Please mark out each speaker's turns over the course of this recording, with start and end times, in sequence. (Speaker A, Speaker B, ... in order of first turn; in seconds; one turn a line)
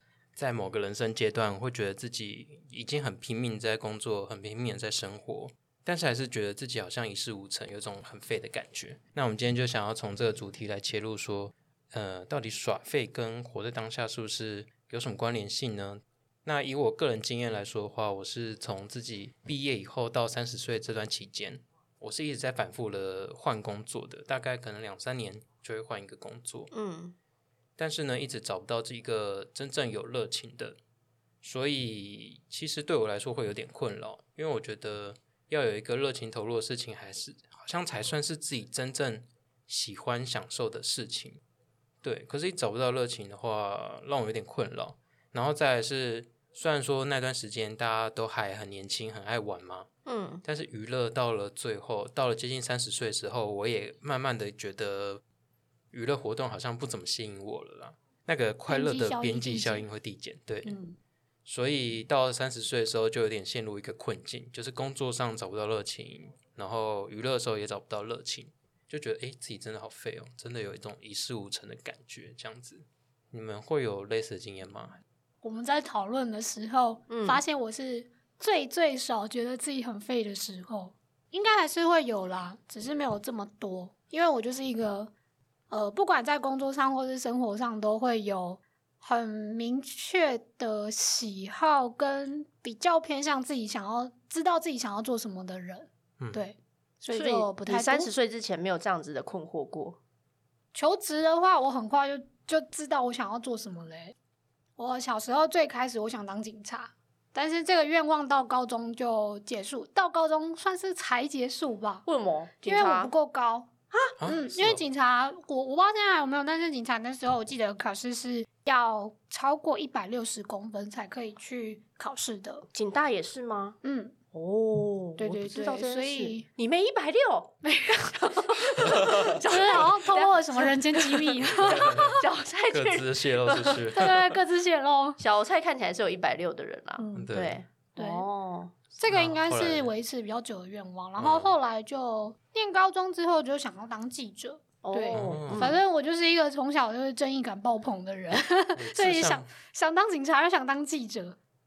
Speaker A: 0.4-26.7
Speaker B: 26.7-27.2
Speaker A: 27.8-30.8
Speaker A: 31.4-41.4
Speaker A: 42.0-49.9
Speaker B: 50.1-50.4
Speaker A: 50.4-55.2
Speaker A: 55.9-60.8
Speaker C: 58.7-59.9
Speaker C: 60.6-61.0
Speaker A: 61.5-75.0
Speaker C: 75.4-85.1
Speaker B: 77.1-77.4
Speaker C: 85.7-98.1
Speaker B: 97.1-100.0
Speaker C: 100.7-104.2
Speaker C: 104.8-112.0
Speaker B: 112.0-113.1
Speaker C: 112.6-113.7
Speaker A: 114.2-114.8
Speaker C: 114.2-122.7
Speaker B: 122.7-123.8
Speaker C: 123.8-124.1
Speaker B: 124.3-133.9
Speaker C: 125.2-126.5
Speaker C: 127.9-132.2
Speaker A: 131.7-132.1
Speaker A: 132.7-134.4
Speaker C: 133.9-135.2
Speaker B: 135.2-138.8
Speaker C: 137.0-137.3
Speaker A: 137.2-137.6
Speaker C: 138.0-138.2
Speaker C: 139.0-151.4
Speaker A: 139.1-139.9
Speaker A: 141.2-141.6
Speaker B: 144.8-145.8
Speaker A: 145.1-145.8
Speaker A: 148.8-149.5